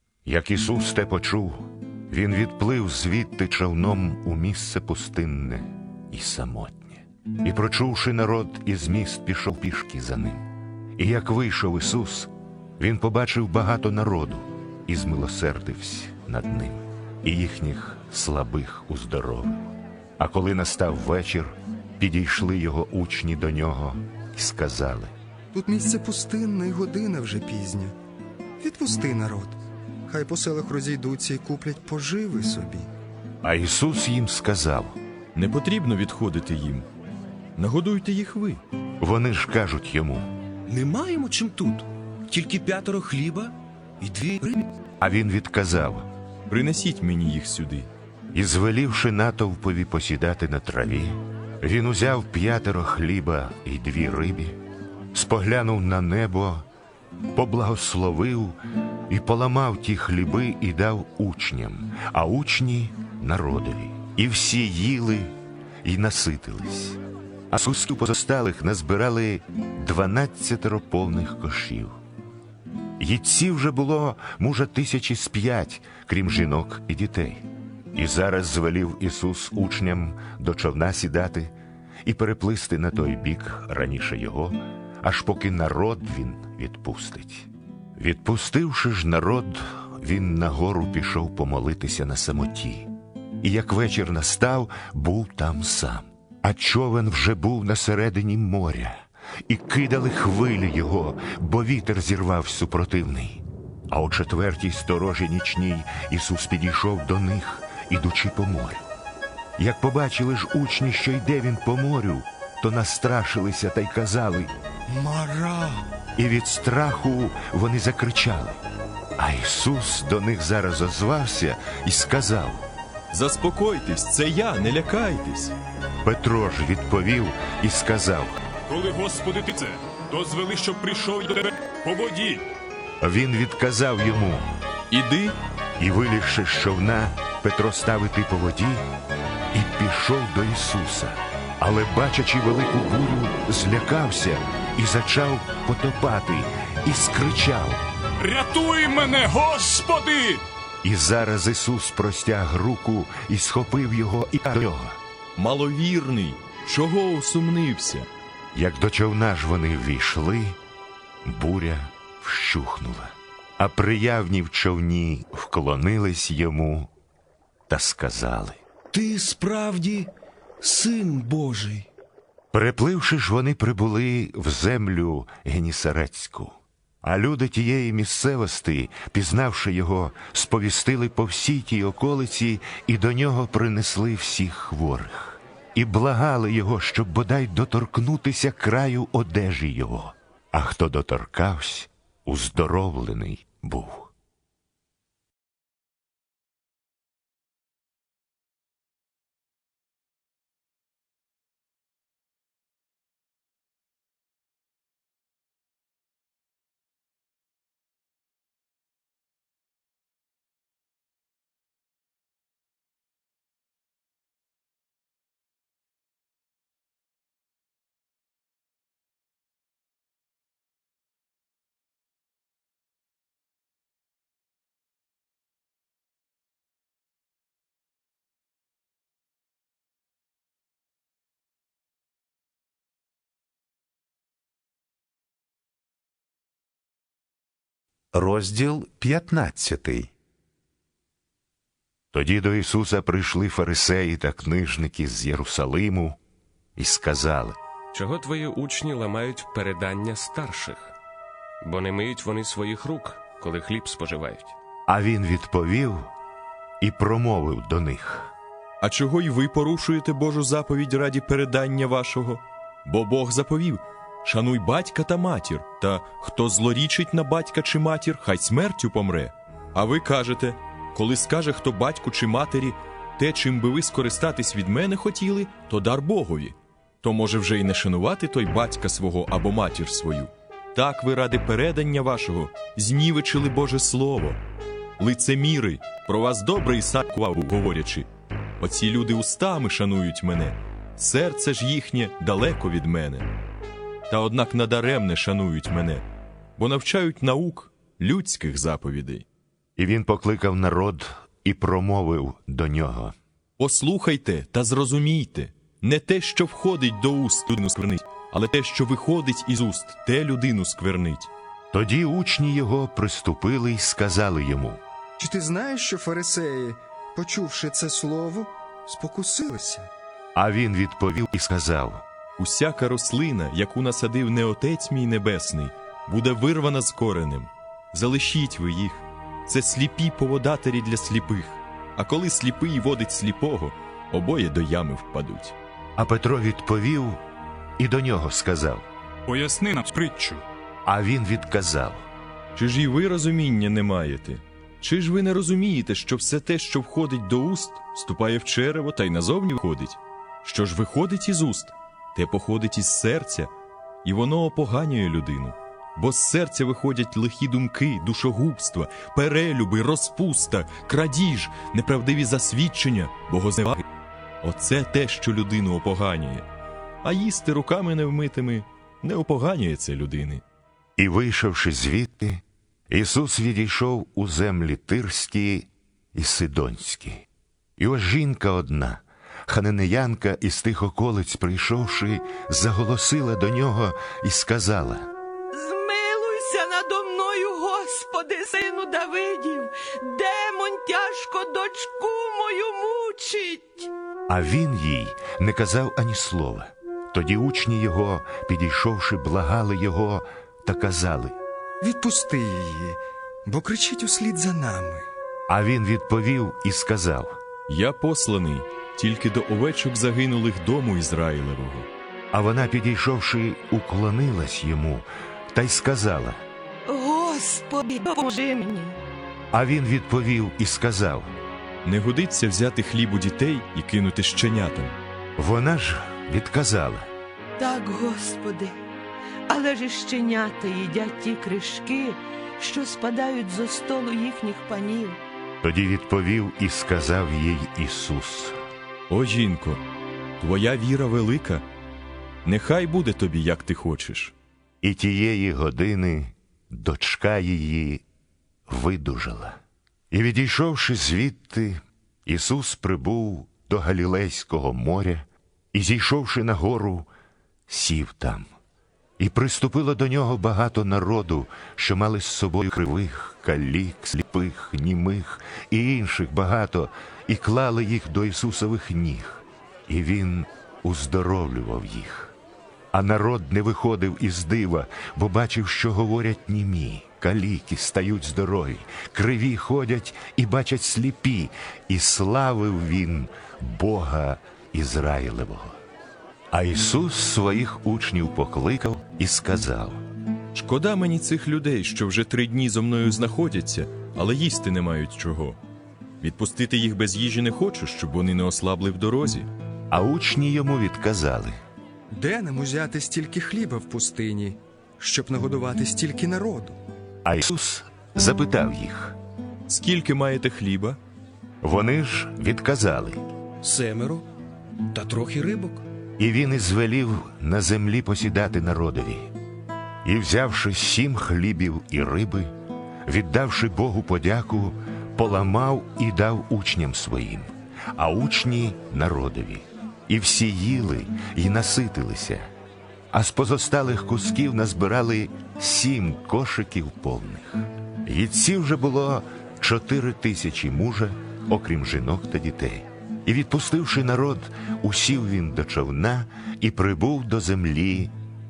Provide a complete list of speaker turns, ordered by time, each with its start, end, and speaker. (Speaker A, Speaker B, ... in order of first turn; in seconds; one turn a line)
Speaker A: 0.2-25.1
Speaker B: 25.5-27.9
Speaker B: 28.6-32.9
Speaker A: 33.4-35.0
Speaker C: 35.3-36.9
Speaker C: 37.5-38.6
Speaker A: 39.0-40.3
Speaker D: 40.7-44.7
Speaker A: 45.0-46.1
Speaker C: 46.5-47.9
Speaker A: 48.3-54.6
Speaker A: 55.1-56.6
Speaker A: 57.3-58.6
Speaker A: 59.1-67.0
Speaker A: 67.5-71.9
Speaker A: 73.0-81.5
Speaker A: 82.0-108.9
Speaker A: 109.6-114.5
Speaker B: 114.9-115.9
Speaker A: 116.2-118.6
Speaker A: 119.2-122.7
Speaker C: 123.1-125.5
Speaker A: 126.0-128.4
Speaker E: 128.7-132.4
Speaker A: 133.0-134.5
Speaker C: 134.9-135.3
Speaker A: 135.8-138.8
Speaker A: 139.5-147.8
Speaker E: 148.2-150.4
Speaker A: 150.8-155.0
Speaker C: 155.4-158.1
Speaker A: 158.5-160.6
Speaker A: 161.2-166.9
Speaker A: 167.7-168.6
Speaker D: 168.9-171.9
Speaker A: 172.5-194.1
Speaker F: 238.1-240.1
Speaker A: 242.1-246.2
Speaker A: 246.8-247.6
Speaker G: 247.9-250.9
Speaker G: 251.6-254.6
Speaker A: 254.9-256.1
Speaker A: 256.8-258.3
Speaker C: 258.8-284.4
Speaker C: 285.0-288.1
Speaker C: 288.6-293.3
Speaker C: 294.1-296.0
Speaker C: 296.6-299.2
Speaker A: 299.8-303.1
Speaker C: 303.6-311.3
Speaker A: 311.7-314.8
Speaker B: 315.2-319.9
Speaker A: 320.3-322.0
Speaker C: 322.4-335.6
Speaker A: 336.0-337.2
Speaker A: 337.8-338.9
Speaker E: 339.2-340.4
Speaker A: 340.8-342.1
Speaker C: 342.6-353.5
Speaker C: 354.0-363.8
Speaker C: 364.4-366.5
Speaker C: 367.0-370.4
Speaker A: 371.0-377.2
Speaker A: 377.8-385.1
Speaker H: 385.5-393.9
Speaker A: 394.3-401.4
Speaker B: 401.8-405.1
Speaker A: 405.5-407.4
Speaker C: 407.7-411.9
Speaker A: 412.3-416.4
Speaker H: 416.9-418.9
Speaker A: 419.5-421.3
Speaker C: 421.8-424.9
Speaker A: 425.4-427.1
Speaker H: 427.6-428.8
Speaker H: 429.5-435.2
Speaker A: 435.6-438.6
Speaker C: 439.1-439.8
Speaker C: 440.4-441.6
Speaker C: 442.4-444.3
Speaker A: 444.8-448.0
Speaker A: 448.7-449.6
Speaker A: 450.1-457.1
Speaker A: 457.7-458.5
Speaker A: 459.2-472.3
Speaker A: 472.9-485.8
Speaker A: 486.5-490.0
Speaker C: 490.5-495.6
Speaker C: 496.2-499.5
Speaker A: 499.9-501.6
Speaker B: 502.1-506.8
Speaker A: 507.2-509.2
Speaker C: 509.7-511.0
Speaker A: 511.6-513.2
Speaker D: 513.6-514.0
Speaker B: 513.7-514.2
Speaker D: 514.9-515.8
Speaker B: 515.1-515.8
Speaker A: 516.2-519.3
Speaker A: 520.0-522.5
Speaker A: 523.0-532.5
Speaker A: 533.1-548.1